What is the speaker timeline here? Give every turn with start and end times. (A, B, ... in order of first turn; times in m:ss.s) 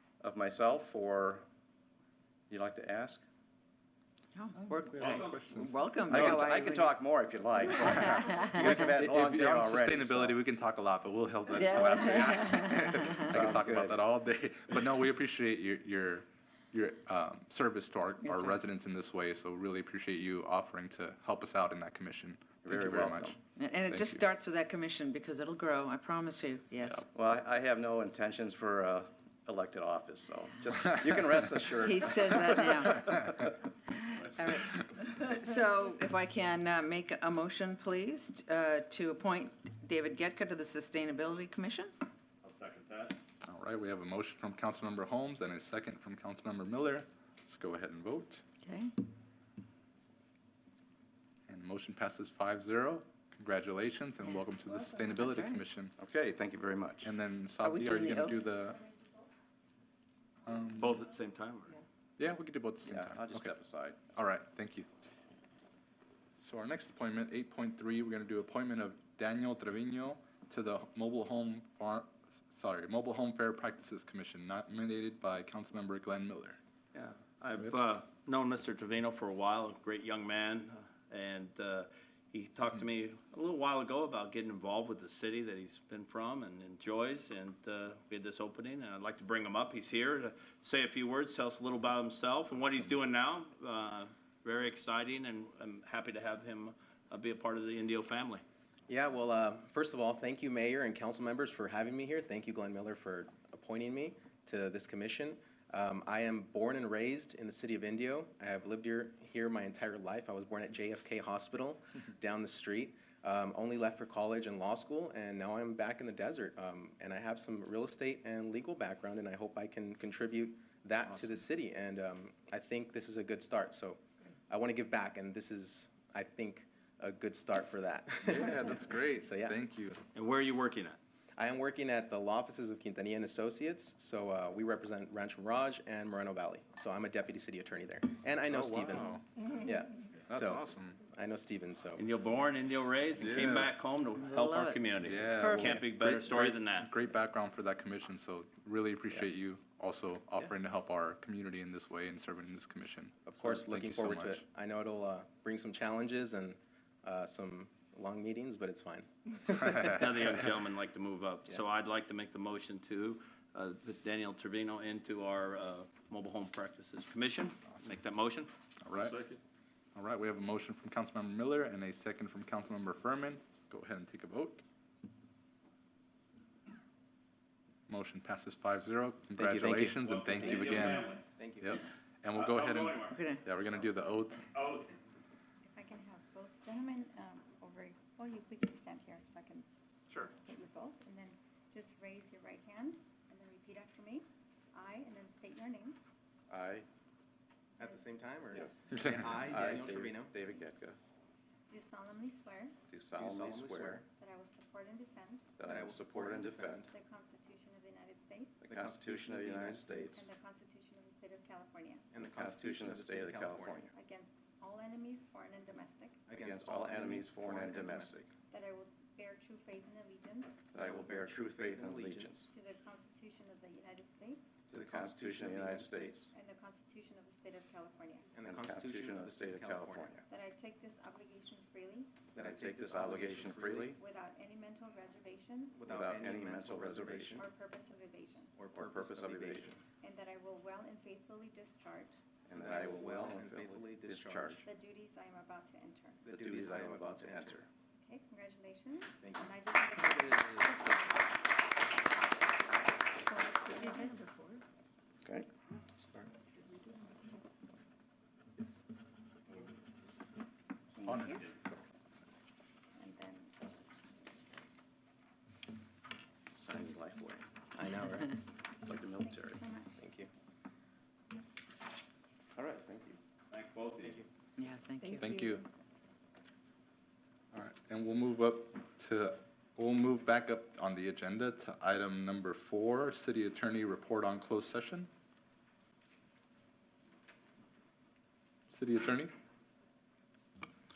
0:00.2-0:01.4 A
0:02.5-0:03.2 A
0:04.3-0:06.9 B
0:04.8-0:05.7 C
0:05.0-0:05.4 D
0:06.1-0:10.4 A
0:07.8-0:08.9 B
0:09.0-0:24.2 C
0:11.5-0:13.3 B
0:12.9-0:14.0 A
0:18.2-0:18.5 B
0:22.6-0:23.4 A
0:23.6-0:27.0 B
0:27.1-0:33.1 A
0:31.8-0:33.3 B
0:33.9-0:41.9 B
0:42.4-0:43.2 D
0:43.4-0:48.4 C
0:48.6-0:48.9 B
0:51.5-0:55.9 C
0:55.2-0:55.6 B
0:56.0-0:57.1 A
0:57.0-0:58.8 C
0:57.6-0:58.5 B
0:58.7-0:59.2 E
1:00.4-1:01.0 C
1:00.8-1:01.8 D
1:02.2-1:03.5 C
1:02.8-1:04.0 A
1:04.1-1:04.9 C
1:06.4-1:16.6 C
1:16.9-1:38.4 D
1:38.9-2:09.6 F
2:01.1-2:01.4 C
2:08.2-2:10.0 C
2:10.1-2:11.0 D
2:11.4-2:22.0 F
2:18.5-2:19.2 C
2:20.3-2:21.0 C
2:22.0-2:26.9 D
2:23.1-2:23.7 C
2:24.2-2:25.8 B
2:25.0-2:34.4 C
2:33.2-2:40.0 F
2:39.5-2:40.0 C
2:39.8-2:48.5 D
2:48.8-2:49.4 C
2:49.9-2:54.6 C
2:57.9-3:04.5 C
2:59.4-3:00.0 A
3:00.0-3:01.2 D
3:00.3-3:01.8 F
3:02.3-3:03.2 D
3:03.1-3:03.4 B
3:04.5-3:05.0 D
3:05.6-3:09.7 E
3:10.4-3:16.0 E
3:16.5-3:16.9 A
3:17.8-3:20.4 F
3:17.8-3:19.0 E
3:18.5-3:21.0 A
3:18.9-3:19.4 C
3:21.7-3:22.7 E
3:22.9-3:24.0 A
3:23.2-3:24.0 F
3:24.1-3:25.6 E
3:25.6-3:26.9 A
3:25.6-3:26.9 F
3:26.8-3:28.6 E
3:28.6-3:30.3 A
3:28.7-3:30.1 F
3:30.1-3:32.1 E
3:32.1-3:33.8 F
3:32.2-3:33.9 A
3:33.9-3:36.3 E
3:36.3-3:38.3 F
3:36.4-3:38.3 A
3:38.5-3:40.7 E
3:40.7-3:42.5 A
3:40.8-3:42.4 F
3:42.4-3:44.7 E
3:44.7-3:46.3 A
3:44.7-3:45.9 F
3:46.1-3:48.3 E
3:48.3-3:50.1 F
3:48.4-3:50.3 A
3:50.3-3:52.2 E
3:52.3-3:54.0 F
3:52.3-3:54.0 A
3:53.9-3:55.9 E
3:55.8-3:57.5 F
3:55.8-3:57.4 A
3:57.4-3:58.5 E
3:58.6-3:59.8 F
3:58.7-3:59.8 A
4:00.0-4:02.2 E
4:02.5-4:04.6 A
4:02.5-4:04.6 F
4:04.6-4:06.2 E
4:06.2-4:07.6 F
4:06.3-4:07.7 A
4:08.0-4:11.0 E
4:09.2-4:09.5 F
4:10.0-4:10.6 A
4:13.0-4:14.3 E
4:21.0-4:21.4 C
4:23.0-4:23.7 E
4:26.5-4:27.5 A
4:27.7-4:28.3 F
4:28.8-4:29.6 A
4:29.0-4:30.0 E
4:30.0-4:30.3 F
4:32.6-4:33.2 A
4:33.5-4:34.3 D
4:34.6-4:35.3 B
4:35.2-4:35.6 C
4:37.5-4:45.1 C
4:48.7-4:49.3 C